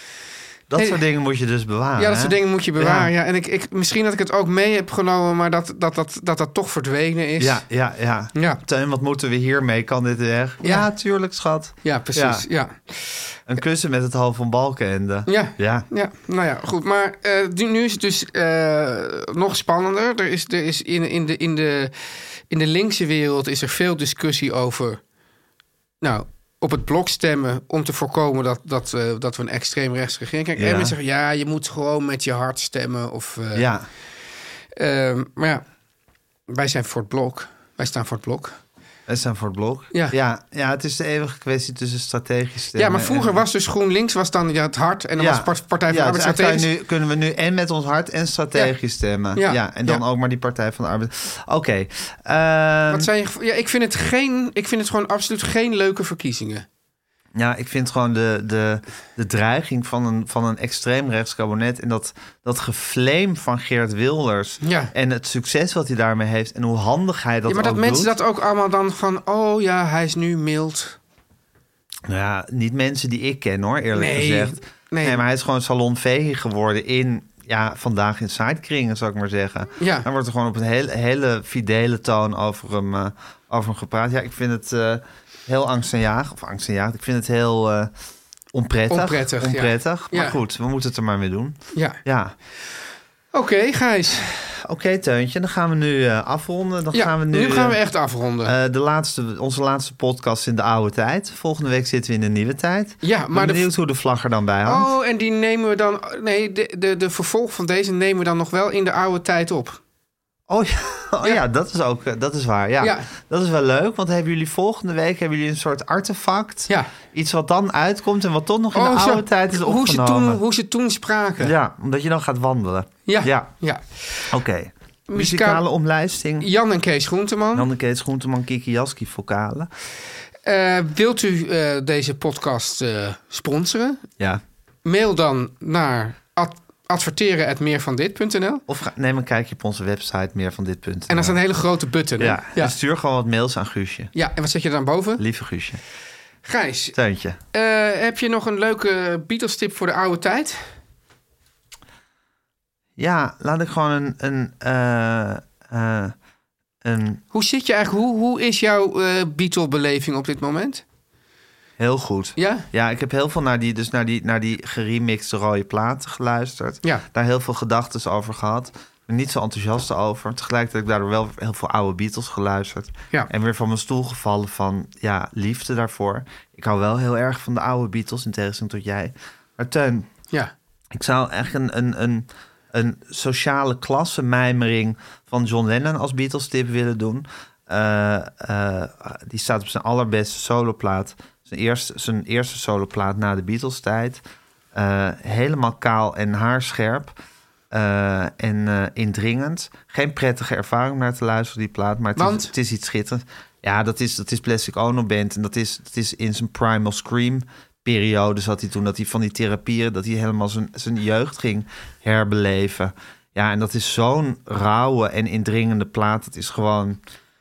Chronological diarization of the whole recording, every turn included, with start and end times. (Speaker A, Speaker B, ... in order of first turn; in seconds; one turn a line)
Speaker A: 0.7-3.1
Speaker B: 2.0-7.6
Speaker A: 7.4-12.5
Speaker B: 8.3-8.6
Speaker B: 11.8-13.2
Speaker A: 13.5-15.9
Speaker B: 15.3-25.0
Speaker B: 26.0-33.7
Speaker A: 30.6-30.9
Speaker A: 33.5-33.9
Speaker B: 34.8-35.6
Speaker B: 36.5-38.6
Speaker A: 39.1-43.4
Speaker B: 42.8-46.7
Speaker A: 45.2-53.1
Speaker B: 49.4-50.0
Speaker B: 52.9-56.7
Speaker A: 57.4-68.2
Speaker B: 64.6-64.9
Speaker B: 67.5-71.0
Speaker A: 72.1-87.9
Speaker B: 74.0-75.2
Speaker B: 79.8-80.1
Speaker A: 88.5-92.3
Speaker B: 88.9-90.4
Speaker B: 91.8-92.0
Speaker B: 93.3-94.3
Speaker A: 94.4-97.8
Speaker B: 96.9-98.5
Speaker A: 98.4-104.9
Speaker B: 103.0-103.7
Speaker B: 104.7-109.8
Speaker A: 110.5-120.4
Speaker B: 112.8-113.1
Speaker B: 118.7-121.5
Speaker A: 121.4-123.5
Speaker B: 123.1-124.3
Speaker A: 124.3-126.5
Speaker B: 125.1-125.6
Speaker B: 126.4-127.7
Speaker A: 127.5-129.7
Speaker B: 130.4-134.1
Speaker B: 134.8-138.6
Speaker A: 138.7-141.4
Speaker B: 141.1-142.8
Speaker A: 142.2-144.1
Speaker B: 144.1-145.2
Speaker A: 145.2-145.8
Speaker B: 146.4-147.0
Speaker A: 146.9-147.4
Speaker B: 147.5-150.7
Speaker A: 153.0-156.2
Speaker A: 156.8-157.2
Speaker B: 157.3-160.8
Speaker A: 161.8-180.1
Speaker B: 162.4-162.7
Speaker A: 180.9-194.2
Speaker A: 194.7-197.1
Speaker A: 197.7-217.0
Speaker B: 202.2-202.5